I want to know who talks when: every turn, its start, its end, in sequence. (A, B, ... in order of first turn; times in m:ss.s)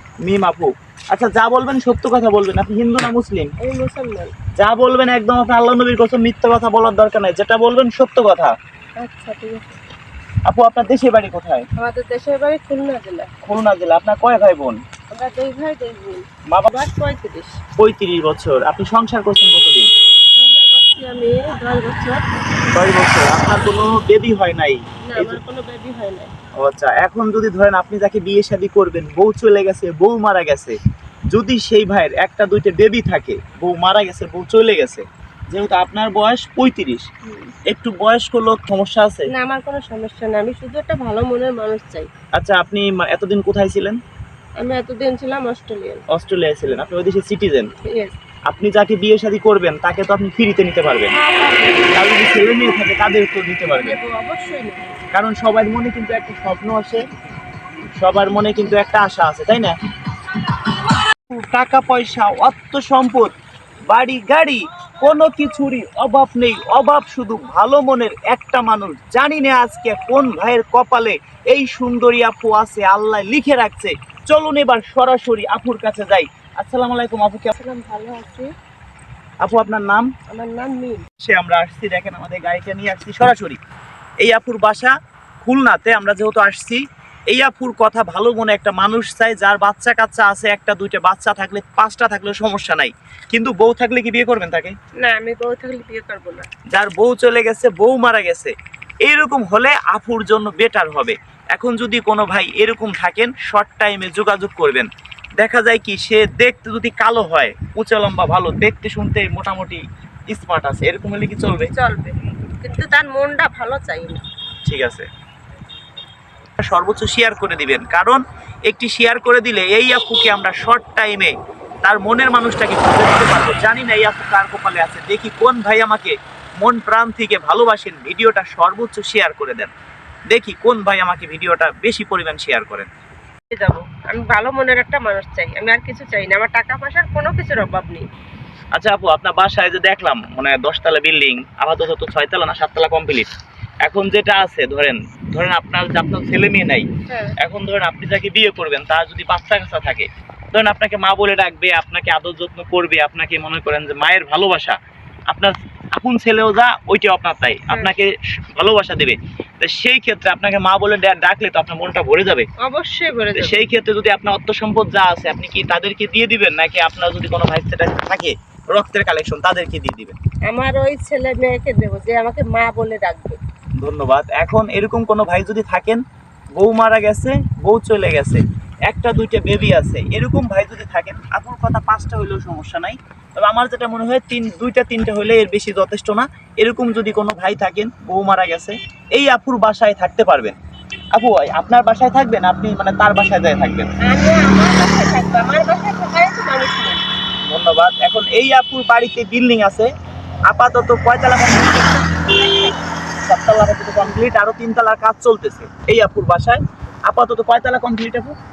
0:00.2-0:03.5 A
0:03.6-0:04.3 B
0:04.6-0:08.5 A
0:09.0-0:09.8 B
0:10.5-0:11.7 A
0:11.8-0:13.3 B
0:13.4-0:14.8 A
0:15.1-0:17.6 B
0:17.8-0:19.9 A
0:20.4-0:22.2 B
0:22.7-0:25.4 A
0:25.0-0:26.3 B
0:26.6-0:30.8 A
0:31.3-0:37.0 A
0:37.2-0:37.5 B
0:37.7-0:39.3 A
0:39.3-0:42.1 B
0:42.4-0:44.0 A
0:44.6-0:46.0 B
0:46.1-0:47.7 A
0:47.8-0:48.2 B
0:48.5-0:51.1 A
0:51.1-0:51.9 B
0:51.9-0:54.0 A
0:53.7-0:54.9 B
0:55.1-0:57.0 A
0:58.0-0:59.8 A
1:01.3-1:03.3 A
1:03.9-1:17.5 A
1:17.5-1:18.5 B
1:19.4-1:20.1 A
1:20.3-1:21.0 B
1:21.2-1:23.6 A
1:24.2-1:34.7 A
1:35.0-1:36.5 B
1:36.7-1:38.5 A
1:39.0-1:44.9 A
1:45.4-1:51.7 A
1:51.7-1:54.2 B
1:54.7-1:55.1 A
1:56.6-2:01.3 A
2:01.8-2:09.7 A
2:10.3-2:12.9 A
2:13.5-2:18.1 B
2:18.7-2:23.3 A
2:23.8-2:26.9 A
2:27.1-2:27.3 B
2:27.4-2:34.8 A
2:35.3-2:42.5 A
2:42.6-2:43.6 B
2:43.4-2:50.2 A
2:50.5-2:53.4 B
2:53.8-2:56.0 A
2:56.6-3:10.6 A
3:11.2-3:13.9 A
3:14.0-3:17.0 B
3:17.5-3:19.9 A
3:20.5-3:22.3 A
3:23.2-3:28.4 A